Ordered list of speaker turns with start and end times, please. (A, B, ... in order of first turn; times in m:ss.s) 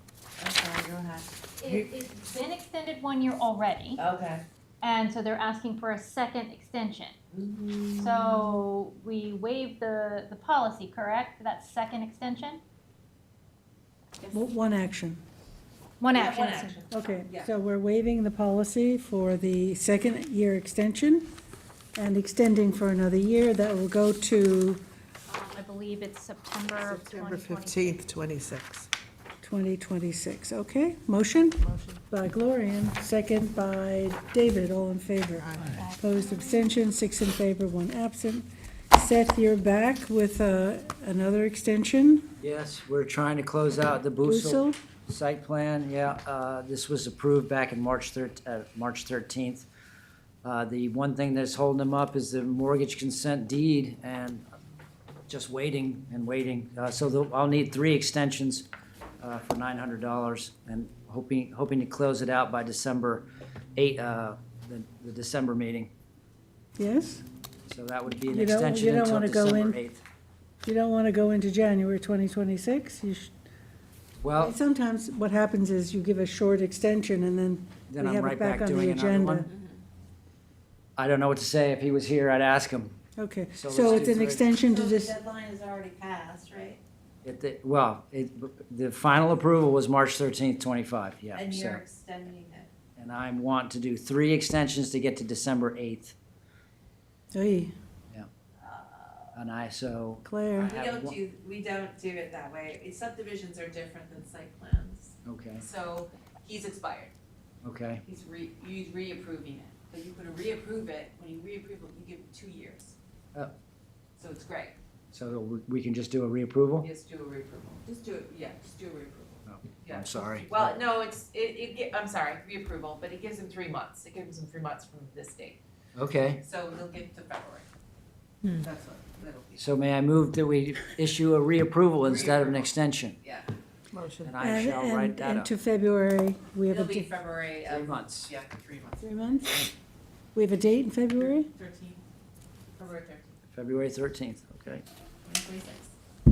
0:00.4-0:01.8 A
0:01.6-0:04.0 B
0:04.0-0:04.4 A
0:04.8-0:07.1 B
0:07.3-0:08.6 A
0:08.0-0:12.6 B
0:14.3-0:15.2 C
0:16.0-0:16.8 B
0:16.1-0:17.5 A
0:16.9-0:21.3 C
0:21.9-0:24.8 C
0:25.3-0:28.0 B
0:26.8-0:28.9 D
0:29.4-0:42.3 C
0:31.6-0:32.0 D
0:35.4-0:35.8 D
0:35.7-0:36.8 B
0:42.4-0:49.7 E
0:44.2-0:44.8 C
0:50.4-0:54.4 E
0:55.3-0:58.7 E
0:59.2-1:05.9 E
1:06.8-1:07.2 C
1:07.7-1:10.0 E
1:08.2-1:09.8 C
1:10.6-1:13.3 C
1:14.2-1:14.6 E
1:14.4-1:19.5 C
1:17.9-1:19.5 E
1:19.5-1:19.8 A
1:21.0-1:23.0 E
1:23.2-1:25.2 C
1:23.6-1:24.5 E
1:24.6-1:26.8 A
1:27.2-1:31.8 E
1:31.3-1:32.7 A
1:33.0-1:36.1 E
1:37.3-1:37.7 C
1:38.6-1:39.4 A
1:39.3-1:41.2 E
1:40.2-1:40.7 C
1:40.5-1:47.1 A
1:45.2-1:45.6 E
1:47.6-1:48.0 E
1:48.0-1:52.9 A
1:54.2-1:54.7 A
1:55.1-1:56.9 E
1:56.8-2:05.6 A
1:59.4-2:00.8 E
2:06.0-2:06.4 E
2:06.4-2:07.6 A
2:08.5-2:09.7 A
2:09.6-2:13.2 E
2:12.0-2:13.5 A
2:13.9-2:14.3 D
2:14.2-2:15.5 E
2:14.4-2:17.1 C
2:16.7-2:19.0 A
2:17.7-2:18.3 E
2:19.0-2:19.7 C
2:20.3-2:21.5 C
2:21.3-2:22.0 A
2:22.7-2:23.3 A
2:23.5-2:24.8 E
2:25.2-2:25.9 A